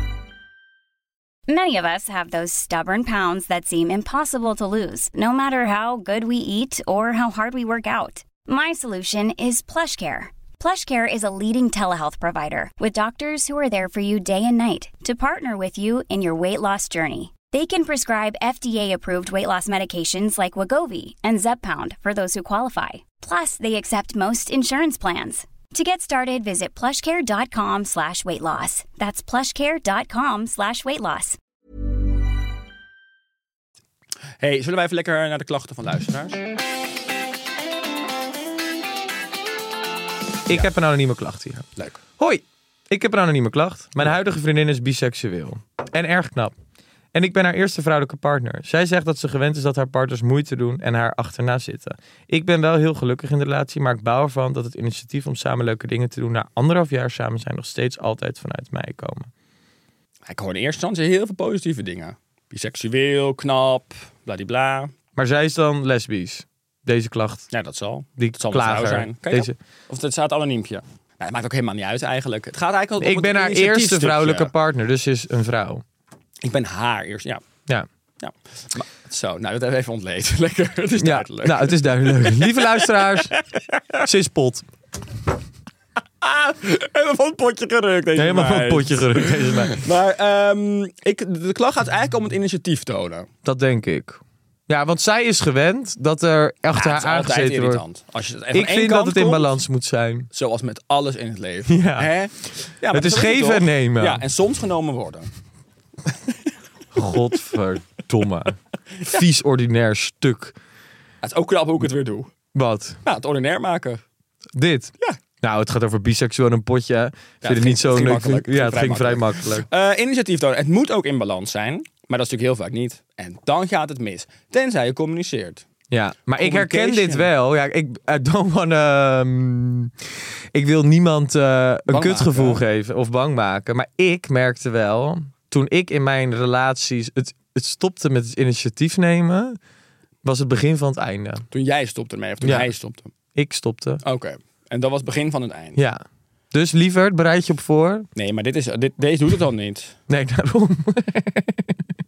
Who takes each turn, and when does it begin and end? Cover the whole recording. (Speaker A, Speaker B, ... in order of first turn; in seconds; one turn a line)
Speaker A: 1.5-31.4
Speaker B: 34.4-36.5
Speaker C: 40.5-41.7
Speaker C: 42.2-46.5
Speaker C: 47.1-59.3
Speaker B: 60.3-64.9
Speaker C: 65.2-67.5
Speaker B: 67.5-74.5
Speaker C: 68.2-69.6
Speaker C: 73.0-75.8
Speaker B: 76.4-77.4
Speaker B: 78.2-84.0
Speaker C: 81.0-83.4
Speaker C: 84.0-84.7
Speaker B: 86.2-93.3
Speaker C: 88.2-89.9
Speaker C: 93.5-97.8
Speaker B: 96.7-99.6
Speaker C: 98.5-100.3
Speaker B: 100.3-105.3
Speaker C: 101.7-102.1
Speaker C: 102.9-104.2
Speaker C: 106.9-110.5
Speaker B: 111.2-112.3
Speaker C: 112.5-113.0
Speaker B: 113.0-114.0
Speaker C: 114.5-119.7
Speaker B: 117.4-125.7
Speaker C: 125.9-139.6
Speaker B: 126.4-127.3
Speaker B: 131.9-132.6
Speaker C: 140.2-141.5
Speaker B: 141.5-143.1
Speaker C: 142.4-142.7
Speaker C: 143.3-144.0
Speaker B: 144.0-145.8
Speaker C: 145.8-148.1
Speaker B: 148.2-150.0
Speaker C: 150.1-151.8